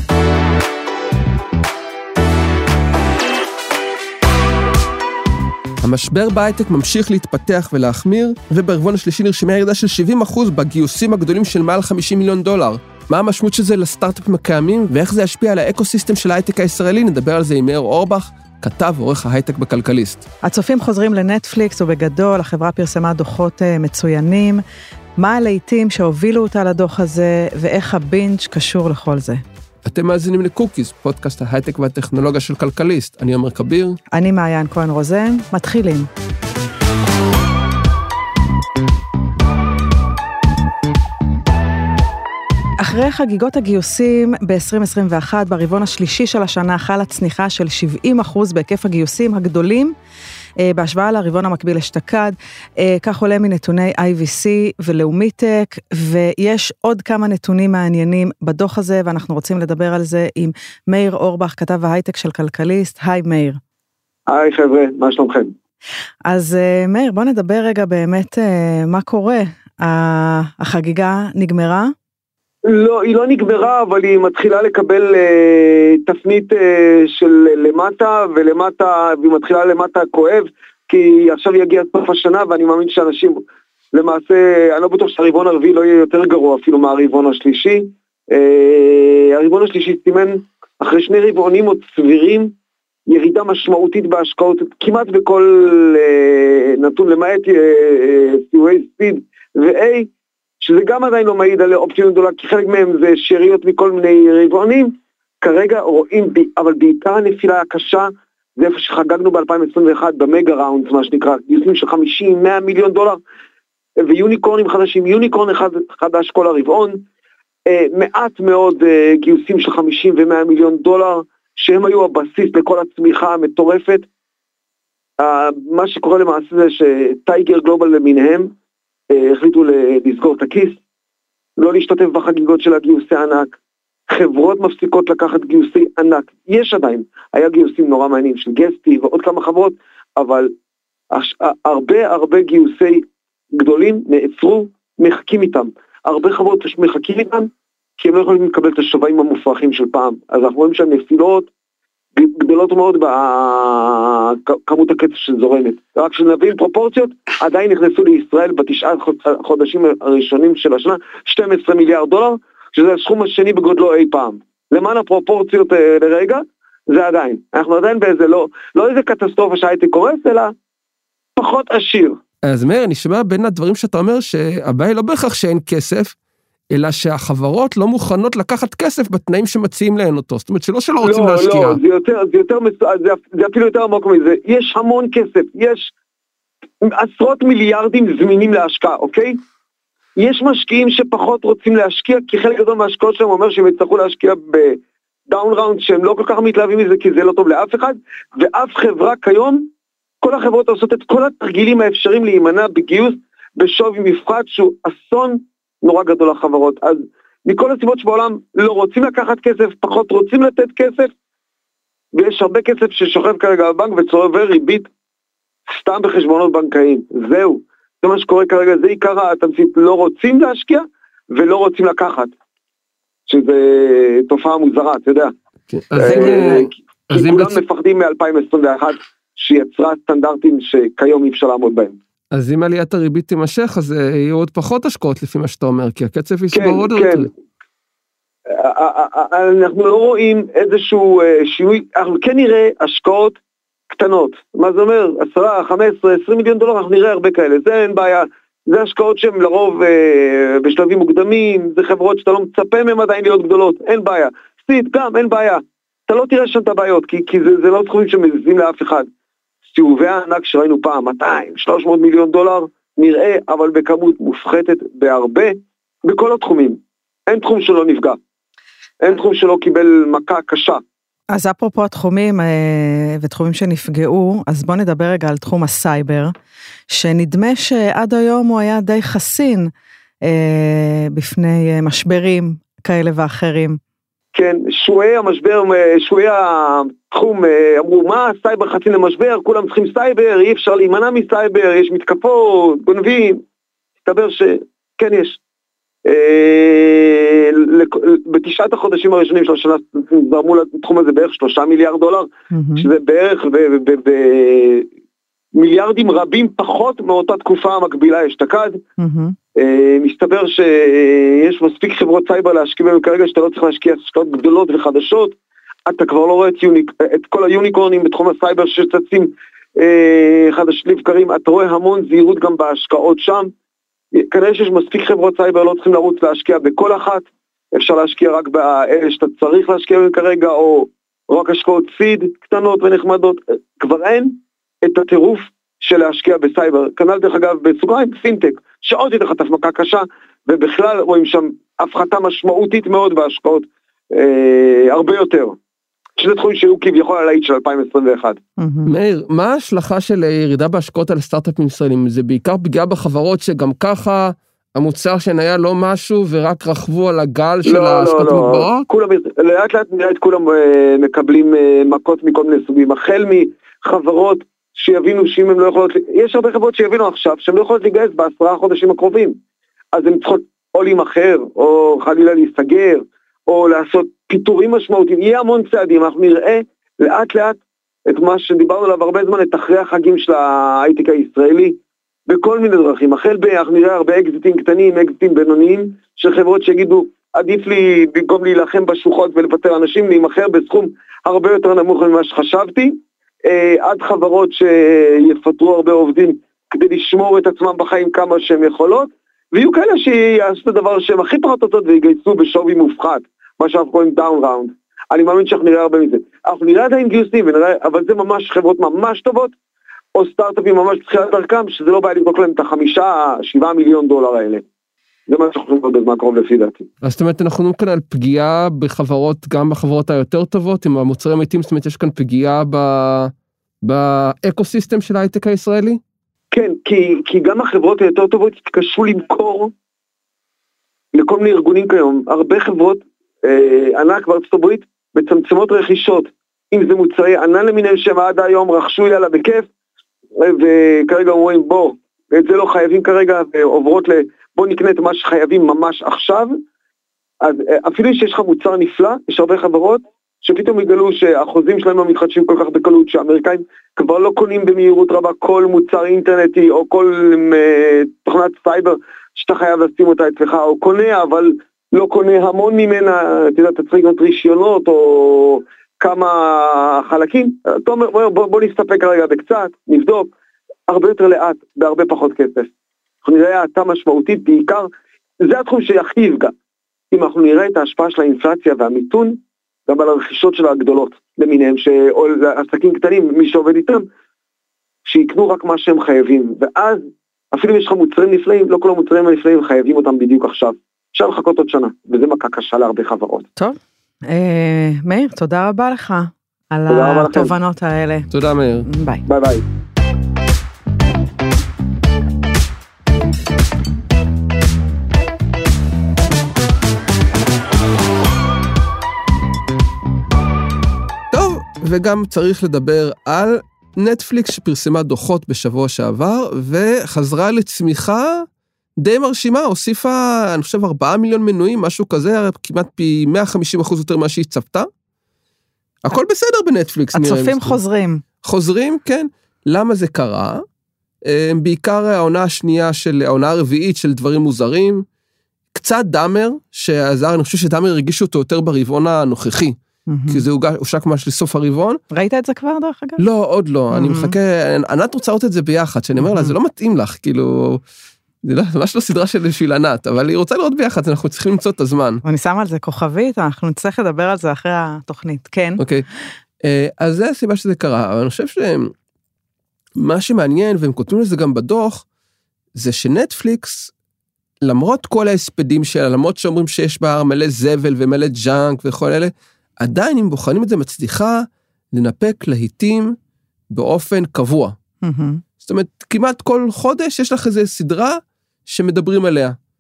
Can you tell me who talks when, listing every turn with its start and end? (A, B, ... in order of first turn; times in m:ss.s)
0:05.8-0:20.2 A
0:20.4-0:24.6 B
0:25.2-0:29.4 B
0:29.8-0:34.0 A
0:34.1-0:36.1 B
0:42.8-0:50.0 B
0:50.6-1:03.6 B
1:04.3-1:05.5 C
1:06.3-1:11.9 B
1:12.7-1:23.4 C
1:23.9-1:32.5 C
1:33.1-1:40.1 C
1:40.6-1:53.2 C
1:54.0-1:57.0 C
1:57.7-2:04.1 C
2:05.2-2:08.5 C
2:09.1-2:10.8 C
2:11.6-2:13.6 C
2:14.1-2:20.5 C
2:21.1-2:23.0 C
2:23.6-2:31.5 C
2:32.2-2:50.5 C
2:51.4-2:52.2 C
2:52.4-2:56.2 A
2:56.7-3:01.8 A
3:01.0-3:05.9 C
3:06.8-3:09.4 C
3:10.2-3:19.7 C
3:20.2-3:31.1 C
3:32.1-3:34.9 C
3:35.7-3:42.3 C
3:43.3-3:45.3 C
3:45.7-3:47.6 A
3:46.0-3:52.0 C
3:46.2-3:46.6 B
3:52.3-3:57.3 A
3:56.5-3:57.3 C
3:58.5-4:03.4 C
4:03.9-4:19.1 C
4:19.7-4:28.2 C
4:29.0-4:30.8 C
4:31.3-4:36.3 B
4:36.9-4:39.7 B
4:40.3-4:43.8 B
4:44.3-4:53.4 C
4:54.0-4:55.4 C
4:56.0-5:04.9 C
5:02.5-5:02.9 B
5:05.6-5:08.8 C
5:09.0-5:09.4 B
5:09.6-5:23.5 C
5:24.2-5:34.4 C
5:34.9-5:45.6 C
5:46.2-5:48.4 C
5:48.6-5:48.9 B
5:48.8-5:58.9 A
5:57.6-6:09.4 C
6:09.9-6:21.8 C
6:22.3-6:49.5 C
6:50.2-6:54.6 C
6:55.3-6:56.9 C
6:57.0-7:06.0 A
7:06.5-7:09.7 C
7:11.1-7:19.7 C
7:20.4-7:26.6 C
7:27.4-7:50.3 C
7:50.9-7:52.7 C
7:53.2-7:54.9 C
7:55.4-7:56.5 C
7:57.1-8:04.0 C
8:05.1-8:13.5 C
8:14.3-8:18.3 B
8:16.9-8:17.5 C
8:18.3-8:18.9 A
8:18.8-8:19.2 B
8:19.2-8:19.6 C
8:31.3-8:38.5 A
8:39.0-8:44.9 A
8:46.0-8:47.8 A
8:47.1-8:48.2 B
8:48.4-8:50.6 A
8:51.3-8:55.0 A
8:55.7-8:59.8 A
9:00.1-9:00.4 B
9:00.3-9:02.0 A
9:02.1-9:03.2 B
9:03.2-9:07.8 A
9:03.9-9:04.4 B
9:06.2-9:06.5 B
9:08.4-9:12.2 A
9:12.2-9:15.8 B
9:15.8-9:16.1 A
9:16.6-9:18.9 A
9:20.0-9:22.0 A
9:22.8-9:23.9 A
9:24.6-9:33.2 A
9:33.7-9:34.8 A
9:35.0-9:35.4 B
9:35.6-9:39.6 A